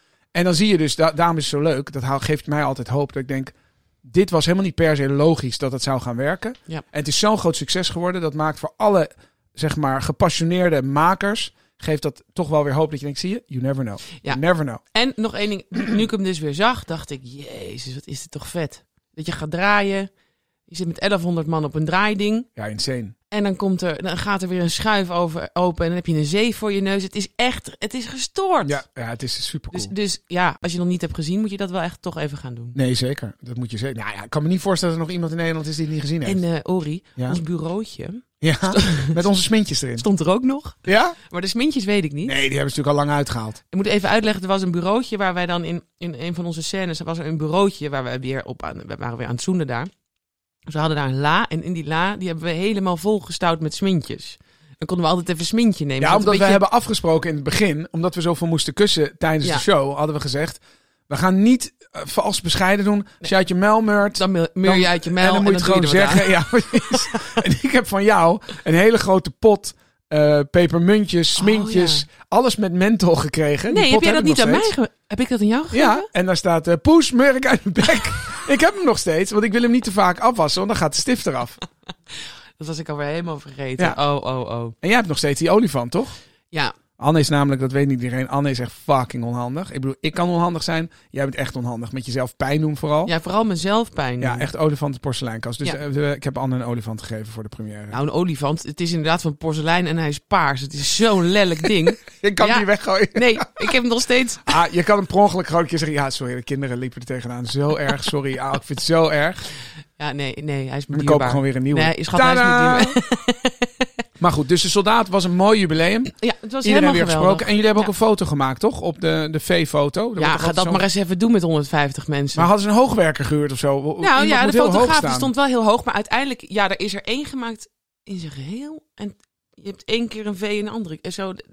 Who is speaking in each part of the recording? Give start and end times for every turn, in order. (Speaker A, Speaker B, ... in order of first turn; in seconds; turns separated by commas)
Speaker A: 0.3-14.8, Speaker B: 14.9-20.1, Speaker B: 20.7-22.5, Speaker A: 22.6-23.1, Speaker B: 23.3-28.8, Speaker A: 28.6-29.9, Speaker B: 29.7-32.8, Speaker A: 32.7-36.4, Speaker B: 36.2-39.2, Speaker A: 38.4-40.0, Speaker B: 40.0-42.3, Speaker A: 40.9-41.2, Speaker A: 42.2-43.6, Speaker B: 43.7-49.9, Speaker B: 50.7-56.6, Speaker A: 56.0-74.7, Speaker B: 64.2-67.3, Speaker B: 71.4-72.0, Speaker B: 73.7-76.1, Speaker A: 75.7-81.6, Speaker B: 82.6-84.7, Speaker A: 84.8-86.2, Speaker A: 87.0-93.1, Speaker B: 93.0-94.5, Speaker A: 94.2-98.0, Speaker B: 97.9-104.6, Speaker A: 102.1-103.7, Speaker A: 104.5-109.5, Speaker B: 110.0-113.9, Speaker A: 110.9-113.0, Speaker A: 114.2-120.8, Speaker B: 116.2-117.9, Speaker B: 120.2-122.5, Speaker A: 122.3-125.3, Speaker B: 124.0-131.4